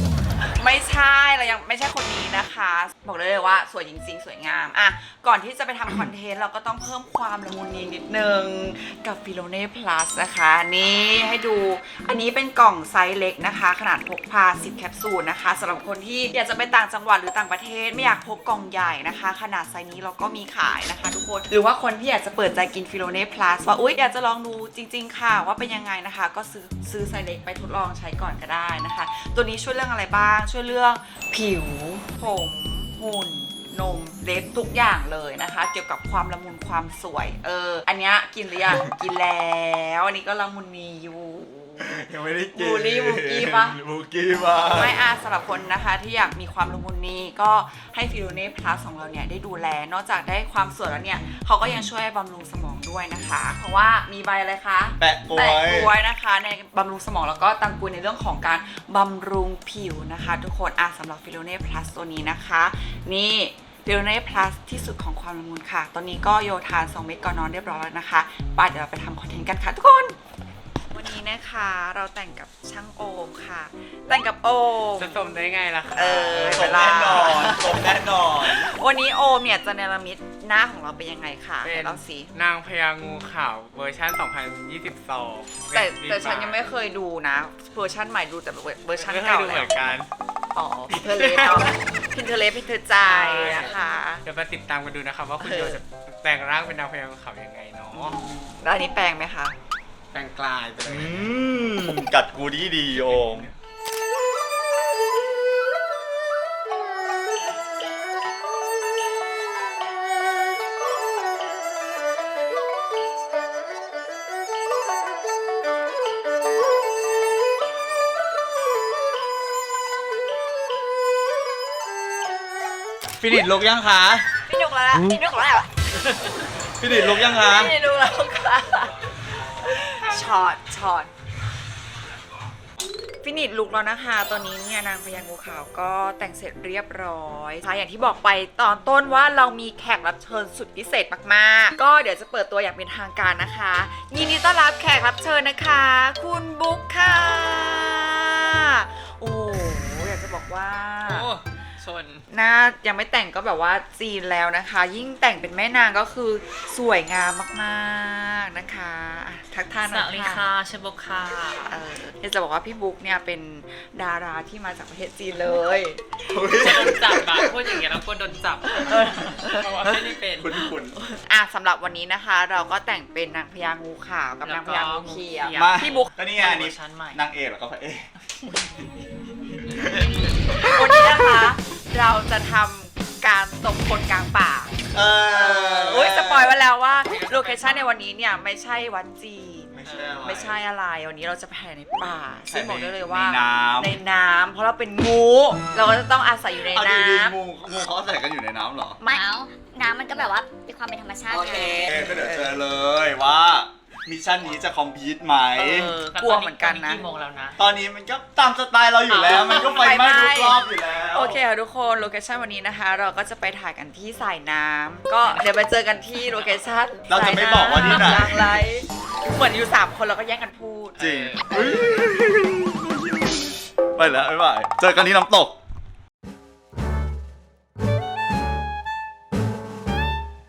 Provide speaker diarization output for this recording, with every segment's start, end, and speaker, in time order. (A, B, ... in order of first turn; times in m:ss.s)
0:00.5-0:43.8 A
0:41.8-0:44.9 B
0:44.6-1:10.2 A
0:55.0-0:55.9 B
1:10.9-1:15.2 A
1:15.0-1:16.7 C
1:15.9-1:22.3 A
1:16.4-1:18.7 B
1:21.6-1:26.6 C
1:25.7-1:29.8 A
1:29.0-1:30.1 C
1:30.6-1:34.2 A
1:31.1-1:31.7 C
1:33.0-1:38.2 C
1:35.4-1:35.8 A
1:37.9-1:39.6 A
1:40.1-1:41.3 C
1:40.9-1:43.5 B
1:43.0-1:43.5 C
2:03.2-2:04.3 B
2:04.4-2:05.7 A
2:06.8-2:07.7 B
2:06.8-2:09.0 A
2:09.6-2:11.1 A
2:13.2-2:31.3 A
2:31.1-2:32.2 C
2:32.3-2:40.5 A
2:39.9-2:41.8 D
2:41.7-2:46.1 A
2:46.3-2:47.8 B
2:46.6-2:50.5 D
2:48.7-2:49.7 A
2:49.9-2:51.0 B
2:51.2-2:56.1 A
2:54.4-2:57.2 D
2:55.5-2:58.1 B
2:59.7-3:00.1 B
3:00.6-3:17.4 A
3:04.9-3:06.5 B
3:07.1-3:07.9 C
3:09.7-3:10.6 B
3:12.5-3:14.0 B
3:16.7-3:19.0 B
3:19.1-3:21.9 E
3:21.3-3:26.0 B
3:21.3-3:22.6 A
3:25.6-3:27.0 A
3:26.1-3:27.6 D
3:27.6-3:31.4 B
3:29.1-3:42.0 A
3:37.1-3:38.6 B
3:41.0-3:45.6 B